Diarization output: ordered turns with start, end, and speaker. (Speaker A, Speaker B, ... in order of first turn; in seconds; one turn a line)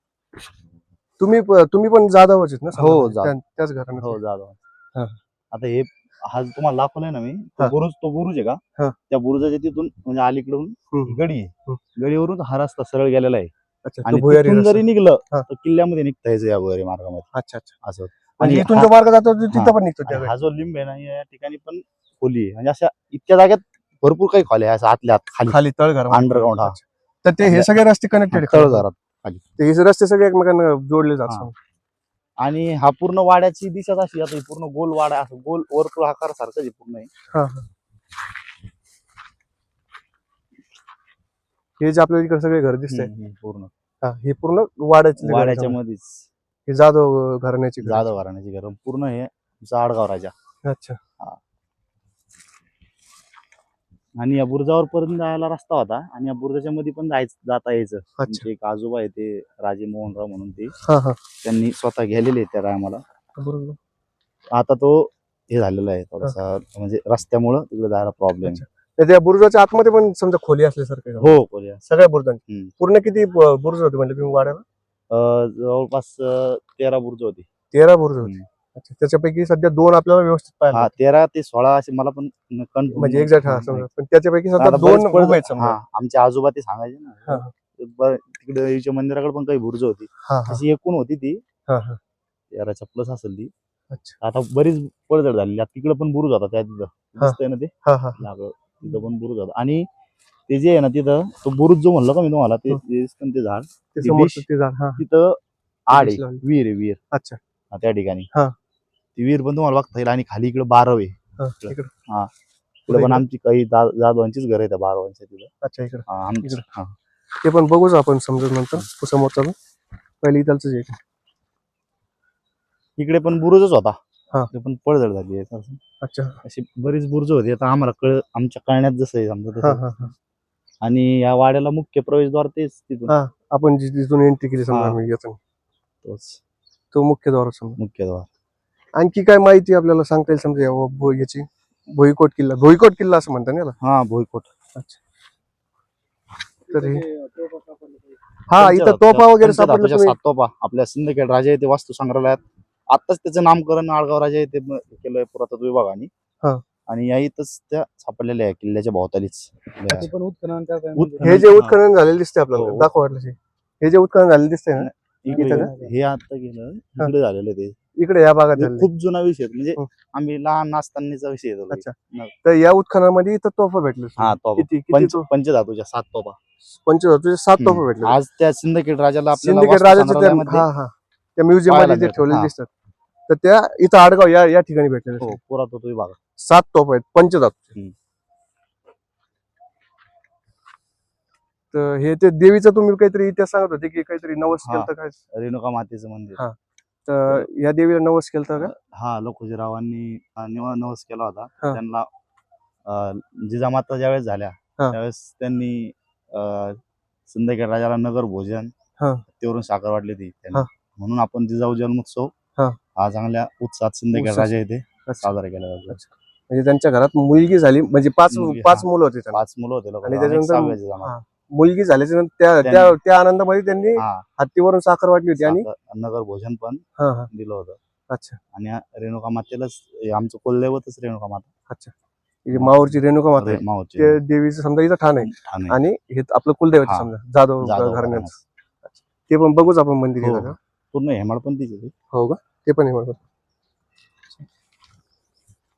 Speaker A: 1.2-4.2
Speaker B: 2.7-3.3
Speaker B: 4.0-4.6
Speaker B: 5.5-13.5
Speaker A: 10.9-11.8
Speaker A: 13.8-15.5
Speaker B: 14.0-17.3
Speaker A: 17.3-17.7
Speaker B: 17.8-18.9
Speaker A: 18.4-20.3
Speaker B: 19.5-25.6
Speaker A: 25.5-28.8
Speaker B: 26.1-26.8
Speaker B: 27.4-27.7
Speaker B: 28.3-29.4
Speaker A: 29.6-31.5
Speaker B: 32.4-37.1
Speaker A: 37.3-37.7
Speaker A: 41.8-43.1
Speaker B: 42.9-43.7
Speaker A: 44.0-45.8
Speaker B: 45.2-46.2
Speaker A: 46.7-48.0
Speaker B: 47.8-50.3
Speaker A: 50.6-51.0
Speaker B: 54.2-60.7
Speaker A: 58.2-58.5
Speaker A: 60.8-61.2
Speaker B: 61.4-63.0
Speaker A: 63.4-63.8
Speaker B: 64.5-68.6
Speaker A: 68.4-74.6
Speaker B: 71.2-71.8
Speaker B: 72.5-72.7
Speaker B: 75.1-77.5
Speaker A: 77.7-80.9
Speaker B: 80.7-83.9
Speaker A: 82.9-85.8
Speaker B: 84.6-91.4
Speaker A: 87.2-87.5
Speaker A: 90.2-90.6
Speaker A: 91.7-92.0
Speaker B: 92.5-93.5
Speaker A: 93.9-94.2
Speaker B: 94.2-99.9
Speaker A: 97.2-98.2
Speaker B: 100.5-104.4
Speaker A: 103.9-105.0
Speaker B: 105.0-105.4
Speaker B: 105.9-107.0
Speaker A: 105.9-106.4
Speaker A: 107.1-107.4
Speaker B: 107.7-108.3
Speaker B: 109.2-112.3
Speaker A: 111.4-111.9
Speaker B: 112.9-115.5
Speaker A: 112.9-113.2
Speaker A: 115.6-116.6
Speaker B: 116.1-116.9
Speaker A: 117.4-119.5
Speaker A: 120.2-121.0
Speaker B: 123.0-124.0
Speaker B: 124.5-125.8
Speaker A: 126.0-126.4
Speaker B: 126.4-130.1
Speaker A: 129.6-130.1
Speaker B: 130.8-133.1
Speaker A: 133.1-135.4
Speaker B: 134.7-135.0
Speaker B: 136.0-136.4
Speaker A: 136.9-137.8
Speaker B: 137.8-138.3
Speaker A: 138.9-143.8
Speaker B: 143.8-144.5
Speaker A: 144.7-145.0
Speaker A: 146.7-147.0
Speaker C: 146.7-148.2
Speaker A: 148.5-150.2
Speaker B: 148.5-156.1
Speaker B: 156.9-160.1
Speaker C: 159.9-161.5
Speaker B: 160.9-161.8
Speaker A: 161.2-165.7
Speaker B: 162.5-162.9
Speaker B: 164.7-167.8
Speaker C: 165.3-165.9
Speaker A: 167.9-168.9
Speaker B: 168.6-172.3
Speaker A: 171.7-175.3
Speaker B: 174.2-176.4
Speaker A: 176.8-178.2
Speaker B: 177.6-180.7
Speaker A: 179.3-182.7
Speaker B: 181.7-182.5
Speaker A: 183.3-185.4
Speaker B: 185.2-186.2
Speaker A: 186.4-187.7
Speaker A: 191.7-195.2
Speaker B: 194.6-196.4
Speaker A: 196.3-198.7
Speaker B: 198.6-202.1
Speaker B: 202.8-208.7
Speaker A: 209.0-209.2
Speaker B: 209.3-212.3
Speaker B: 212.9-216.0
Speaker A: 214.1-214.5
Speaker A: 215.1-215.4
Speaker A: 215.9-219.4
Speaker B: 218.3-221.1
Speaker A: 220.0-225.7
Speaker B: 222.6-222.9
Speaker B: 223.9-224.2
Speaker B: 225.4-227.8
Speaker A: 227.0-227.3
Speaker A: 228.1-228.4
Speaker B: 228.5-231.5
Speaker A: 231.7-231.9
Speaker A: 232.4-238.3
Speaker B: 232.5-234.2
Speaker B: 235.2-235.8
Speaker B: 236.8-237.1
Speaker B: 237.6-238.4
Speaker A: 238.8-240.6
Speaker B: 240.2-241.9
Speaker A: 242.1-243.2